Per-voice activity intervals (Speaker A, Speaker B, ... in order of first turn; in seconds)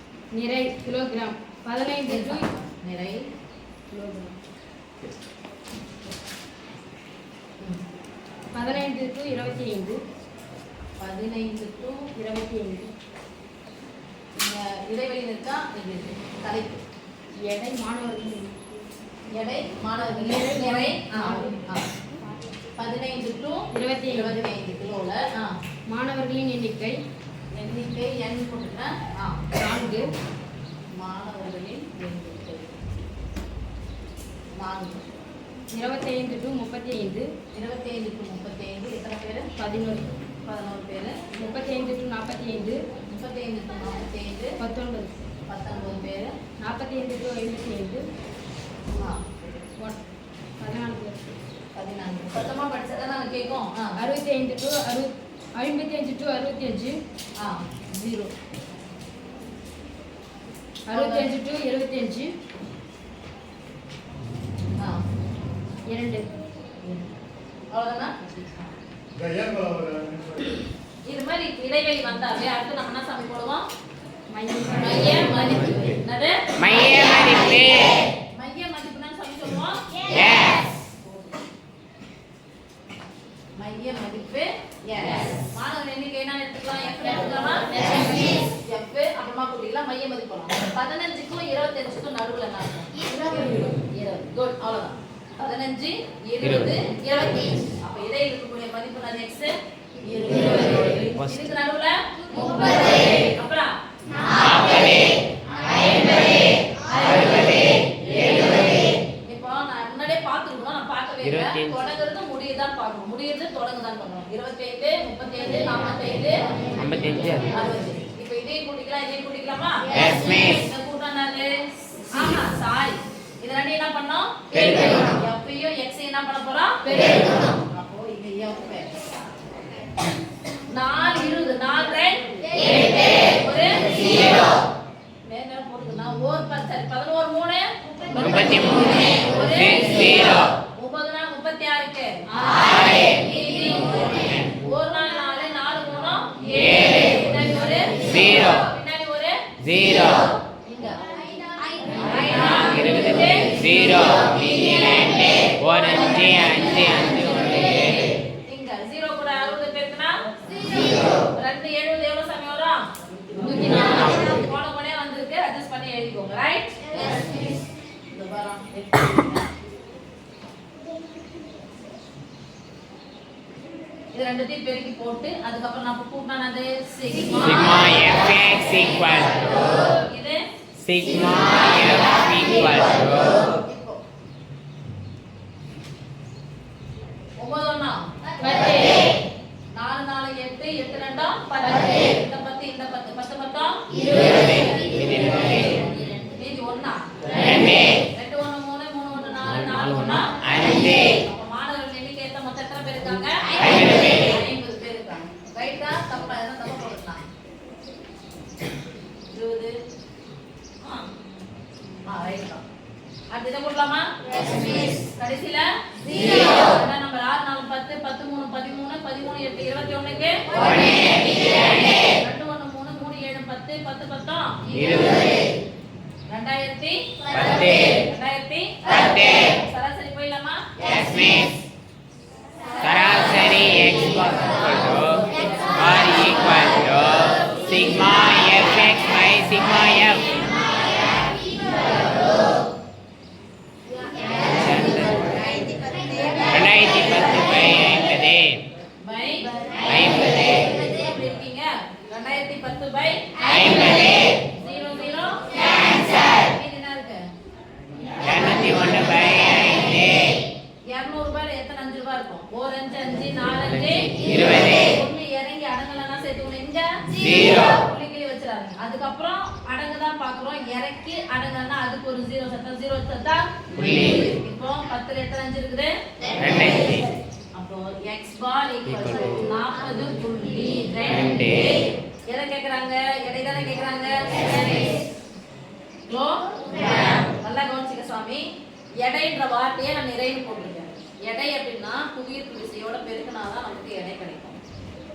Speaker A: 0.3-2.4, 3.9-4.3, 8.5-10.0, 12.2-12.9, 17.4-18.6, 20.0-21.6, 23.7-24.3, 25.9-26.9, 29.5-30.1, 35.7-37.3, 39.6-40.1, 41.3-42.8, 44.6-45.1, 46.6-48.0, 50.6-51.2, 54.0-57.0, 60.9-62.3, 65.9-66.3, 74.3-76.0, 188.4-189.0
Speaker B: 2.1-3.2, 11.0-12.1, 14.4-16.8, 19.3-21.8, 22.8-25.5, 27.5-29.4, 30.9-32.8, 34.5-35.1, 37.5-39.5, 40.5-41.2, 43.1-44.6, 45.5-46.3, 48.9-49.2, 51.8-53.9, 57.4-58.3, 60.9-61.3, 67.7-68.7, 71.0-73.7, 74.8-76.4, 78.3-79.8, 81.0-81.3, 83.6-99.5, 100.0-103.7, 109.2-116.4, 117.5-121.5, 122.1-128.9, 130.7-134.4, 135.2-149.4, 150.7-151.0, 151.9-153.5, 157.8-160.2, 161.3-162.8, 163.4-166.8, 168.1-169.4, 174.1-177.9, 179.5-180.4, 183.2-184.0, 187.4-188.1, 189.7-195.0, 195.6-207.2, 209.3-209.7, 212.0-212.6, 213.3-214.1, 215.0-224.6, 226.3-230.7, 249.0-257.2, 260.9-275.9, 277.6-285.0, 286.1-288.4, 289.0-294.6
Speaker C: 76.6-78.0, 80.1-80.6, 96.4-96.7, 101.2-101.5, 107.0-107.5, 111.2-111.8, 116.8-117.5, 119.9-120.6, 138.2-139.0, 139.6-140.4, 148.1-148.6, 149.6-150.3, 152.7-157.9, 177.4-179.5, 180.8-183.4, 194.2-195.8, 199.4-201.1, 203.8-204.1, 224.7-225.2, 227.3-228.0, 228.9-229.4, 230.8-231.6, 232.8-240.4, 244.5-245.2, 246.5-248.6, 249.8-250.3, 253.5-254.1, 258.2-260.4, 264.2-264.6, 267.3-267.6, 273.8-274.2, 276.4-277.1, 278.9-279.5, 281.1-281.8